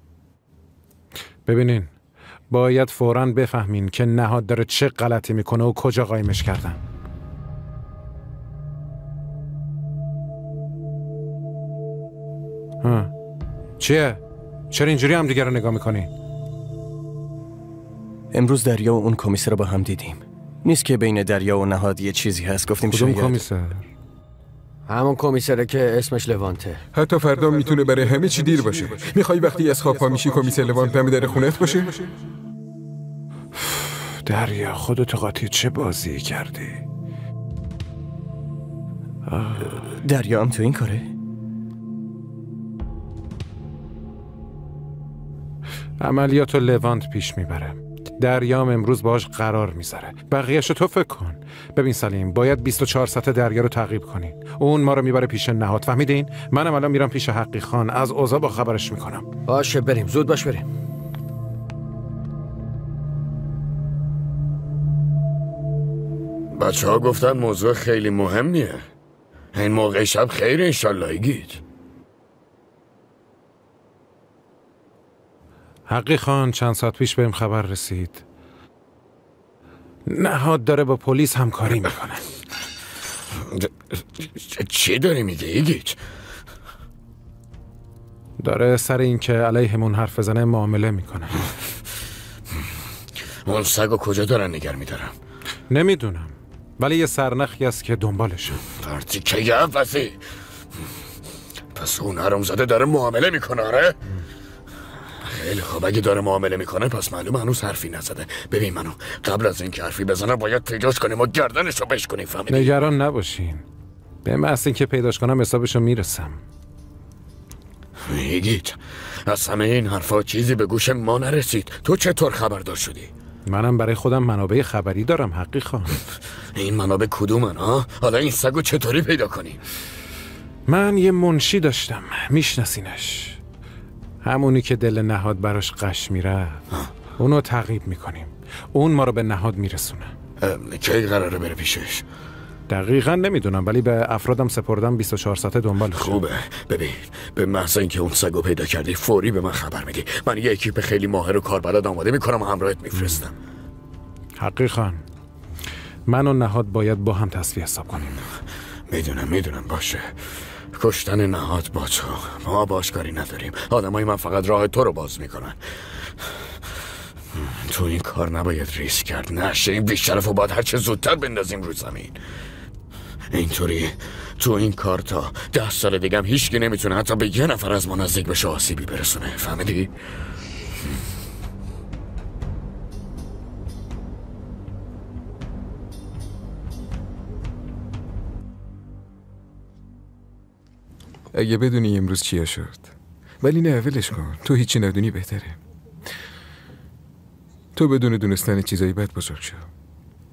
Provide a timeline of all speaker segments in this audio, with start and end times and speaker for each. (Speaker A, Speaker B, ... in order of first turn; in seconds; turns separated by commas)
Speaker A: 1.5-1.9, Speaker A: 2.5-6.8, Speaker A: 12.8-13.1, Speaker A: 13.8-14.2, Speaker A: 14.7-16.1, Speaker B: 18.3-23.4, Speaker A: 22.9-23.9, Speaker C: 24.9-26.8, Speaker D: 26.9-32.1, Speaker A: 33.8-36.8, Speaker A: 39.3-39.9, Speaker B: 39.7-41.1, Speaker A: 46.0-59.3, Speaker C: 59.5-60.6, Speaker E: 66.5-68.8, Speaker E: 69.5-71.6, Speaker A: 75.9-78.2, Speaker A: 80.1-82.3, Speaker E: 84.2-86.0, Speaker A: 88.4-91.5, Speaker E: 93.5-95.1, Speaker A: 95.7-98.6, Speaker E: 98.6-100.2, Speaker E: 101.8-104.0, Speaker E: 105.3-112.7, Speaker A: 112.5-113.6, Speaker A: 114.2-116.4, Speaker E: 118.1-123.1, Speaker A: 123.5-126.0, Speaker E: 126.6-129.6, Speaker A: 130.7-133.4, Speaker A: 134.2-136.6, Speaker A: 137.2-140.1, Speaker E: 140.4-142.0, Speaker A: 142.7-146.2, Speaker E: 146.0-153.3, Speaker A: 154.4-155.0, Speaker A: 156.1-158.1, Speaker E: 158.9-165.6, Speaker E: 167.4-172.2, Speaker E: 173.3-179.9, Speaker D: 191.3-192.9, Speaker D: 193.4-195.6, Speaker D: 197.8-199.7